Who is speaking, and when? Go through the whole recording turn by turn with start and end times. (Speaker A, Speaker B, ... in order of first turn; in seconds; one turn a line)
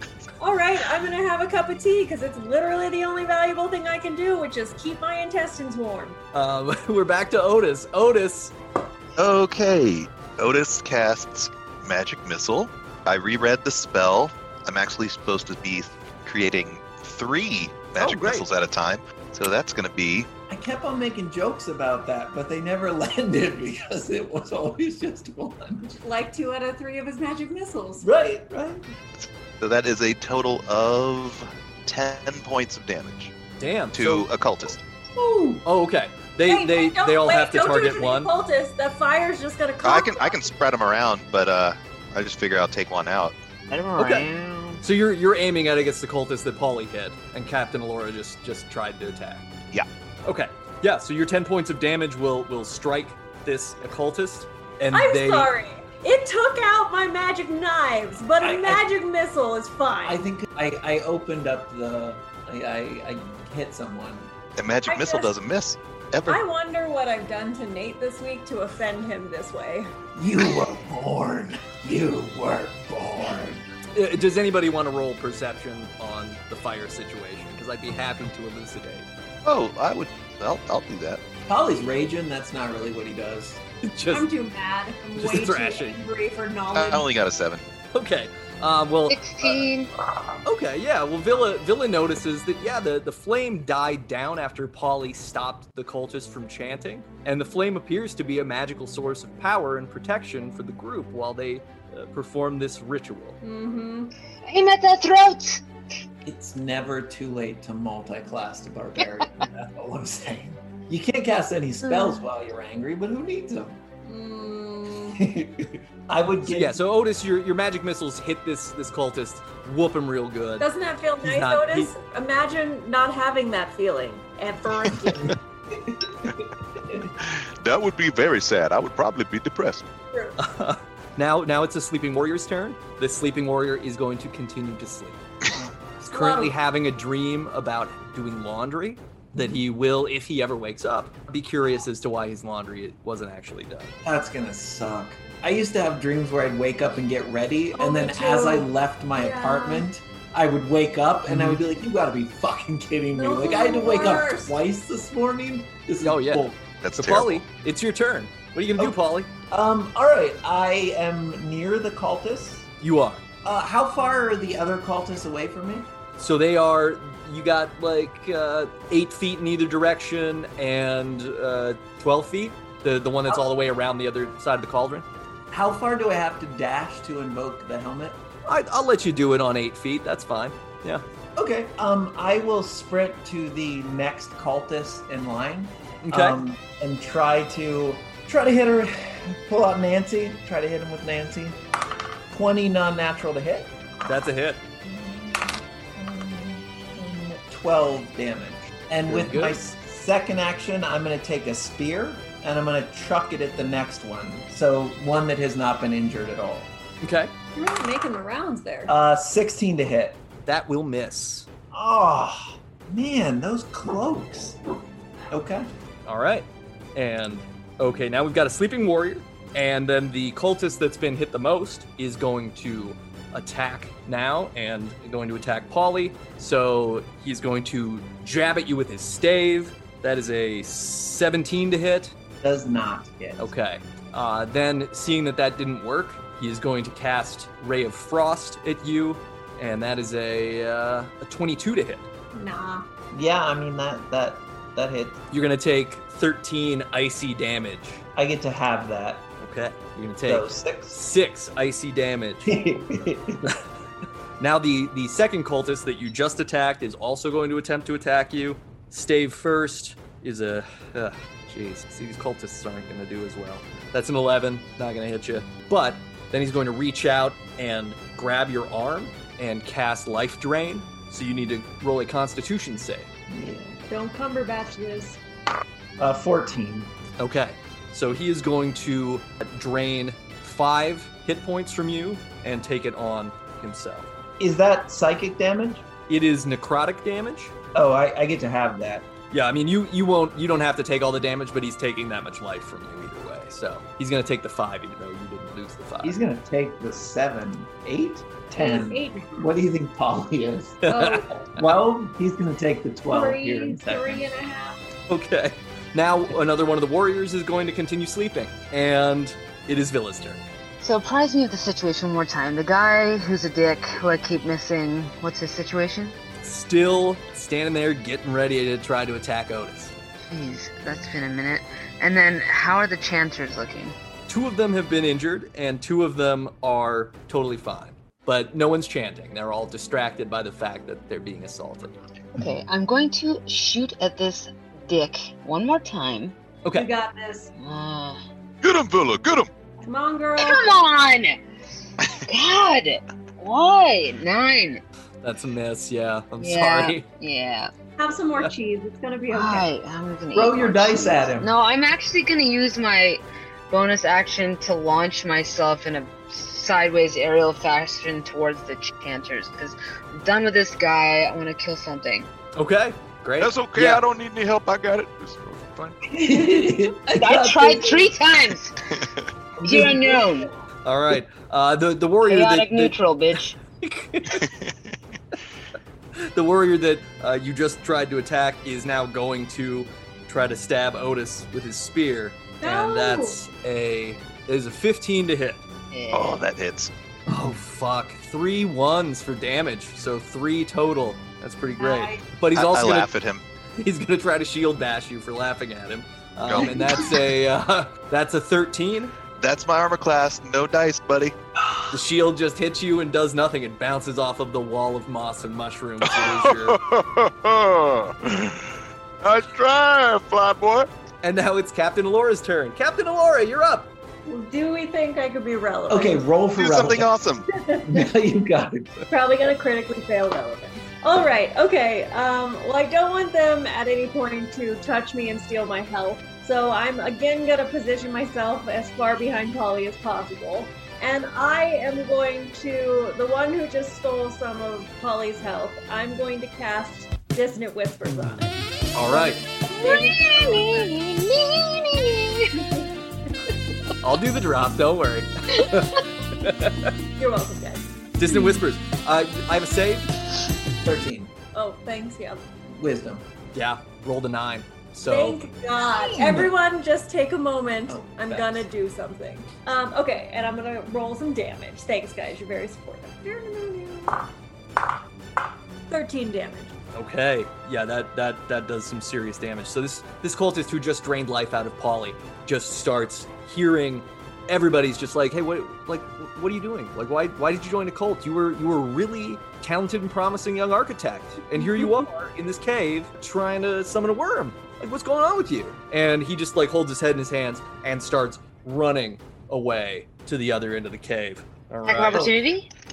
Speaker A: 0.4-6.2
Speaker B: 6.3-8.5
Speaker C: 9.2-20.3
Speaker B: 18.0-18.5
Speaker D: 20.5-26.0
Speaker A: 26.0-28.1
Speaker D: 28.0-28.9
Speaker C: 29.2-33.3
Speaker B: 33.6-34.3
Speaker C: 33.9-34.8
Speaker D: 35.1-35.6
Speaker B: 35.6-38.3
Speaker A: 36.5-40.5
Speaker C: 39.8-43.4
Speaker E: 43.7-44.8
Speaker B: 44.0-44.3
Speaker B: 44.8-49.5
Speaker B: 50.2-55.5
Speaker A: 54.9-60.2
Speaker D: 58.4-58.8
Speaker D: 60.0-64.3
Speaker C: 64.6-66.4
Speaker A: 64.9-65.3
Speaker A: 66.3-69.9
Speaker D: 70.2-73.6
Speaker B: 74.0-79.1
Speaker C: 79.5-81.2
Speaker D: 81.5-83.6
Speaker B: 83.8-84.3
Speaker A: 84.1-87.1
Speaker B: 85.2-86.0
Speaker C: 86.7-87.6
Speaker B: 87.9-89.7
Speaker E: 89.1-89.9
Speaker B: 90.5-103.4
Speaker A: 103.4-104.1
Speaker E: 104.4-105.6
Speaker D: 106.2-113.8
Speaker E: 111.8-112.3
Speaker A: 114.1-115.2
Speaker D: 115.2-116.8
Speaker B: 116.5-120.7
Speaker A: 120.6-125.4
Speaker B: 121.2-121.9
Speaker D: 125.1-127.1
Speaker F: 127.6-129.9
Speaker A: 130.1-130.4
Speaker B: 130.4-135.2
Speaker B: 136.0-143.9
Speaker A: 136.1-136.6
Speaker D: 144.0-156.6
Speaker A: 147.7-149.9
Speaker B: 151.3-151.6
Speaker A: 153.2-154.6
Speaker B: 156.0-159.3
Speaker C: 156.8-157.5
Speaker D: 159.5-162.7
Speaker B: 162.8-163.2
Speaker D: 163.4-165.9
Speaker B: 166.2-175.1
Speaker D: 175.5-178.2
Speaker B: 178.5-181.0
Speaker D: 181.4-191.6
Speaker B: 186.0-186.4
Speaker D: 192.3-193.7
Speaker B: 194.1-194.6
Speaker D: 194.8-206.7
Speaker B: 199.1-199.6
Speaker B: 207.0-207.3
Speaker A: 207.6-208.9
Speaker D: 208.9-210.2
Speaker B: 210.5-211.5
Speaker D: 211.7-214.6
Speaker D: 215.3-215.7
Speaker B: 216.1-232.1
Speaker D: 232.4-233.5
Speaker B: 233.4-242.1
Speaker A: 242.3-242.9
Speaker D: 243.1-245.2
Speaker B: 245.3-248.0
Speaker D: 248.2-249.3
Speaker B: 249.4-252.5
Speaker D: 250.3-251.0
Speaker D: 252.4-253.5
Speaker B: 254.4-273.1
Speaker D: 273.3-273.8
Speaker A: 273.9-275.2
Speaker D: 276.0-276.9
Speaker B: 277.2-284.1
Speaker D: 284.4-285.9
Speaker B: 286.1-287.5
Speaker D: 287.7-289.1
Speaker B: 289.3-296.2
Speaker D: 296.0-300.8
Speaker A: 298.5-299.4
Speaker B: 300.8-301.7
Speaker A: 300.9-301.4
Speaker D: 301.6-304.3
Speaker A: 303.1-304.8
Speaker B: 305.1-310.4
Speaker E: 310.8-316.1
Speaker B: 316.4-319.9
Speaker E: 320.3-323.9
Speaker B: 324.3-332.0
Speaker E: 332.4-336.4
Speaker B: 336.6-336.9
Speaker A: 336.7-337.5
Speaker E: 337.6-338.2
Speaker F: 338.6-339.5
Speaker A: 339.8-340.8
Speaker E: 340.4-341.4
Speaker E: 342.2-344.8
Speaker B: 345.2-347.1
Speaker E: 346.4-347.7
Speaker A: 348.0-349.7
Speaker E: 349.3-362.3
Speaker D: 350.3-351.5
Speaker B: 362.6-364.0
Speaker F: 363.4-366.0
Speaker D: 366.1-368.2
Speaker E: 367.2-368.8
Speaker D: 369.6-370.3
Speaker E: 369.6-370.5
Speaker B: 370.9-373.0
Speaker E: 372.2-373.6
Speaker B: 373.8-374.5
Speaker B: 376.2-385.6
Speaker A: 382.6-383.4
Speaker E: 385.9-386.4
Speaker C: 386.1-386.9
Speaker B: 387.3-393.1
Speaker A: 391.8-392.2
Speaker C: 392.6-393.4
Speaker B: 393.8-399.1
Speaker C: 396.5-396.8
Speaker C: 399.4-401.4
Speaker B: 401.9-406.8
Speaker F: 406.0-410.9
Speaker B: 411.2-413.9
Speaker A: 414.3-416.2
Speaker D: 415.9-417.1
Speaker C: 416.6-417.5
Speaker A: 417.5-418.1
Speaker D: 417.8-419.1
Speaker A: 419.1-438.6
Speaker B: 438.9-439.4
Speaker E: 439.7-442.7
Speaker A: 439.7-440.9
Speaker A: 442.6-442.9
Speaker B: 444.0-446.9
Speaker A: 447.2-447.8
Speaker B: 448.2-450.1
Speaker D: 450.8-451.3
Speaker A: 451.5-452.4
Speaker D: 452.7-453.2
Speaker B: 453.5-455.4
Speaker A: 455.1-464.2
Speaker D: 456.1-456.5
Speaker D: 457.9-458.7
Speaker A: 465.9-466.7
Speaker B: 466.9-492.3
Speaker E: 491.9-492.7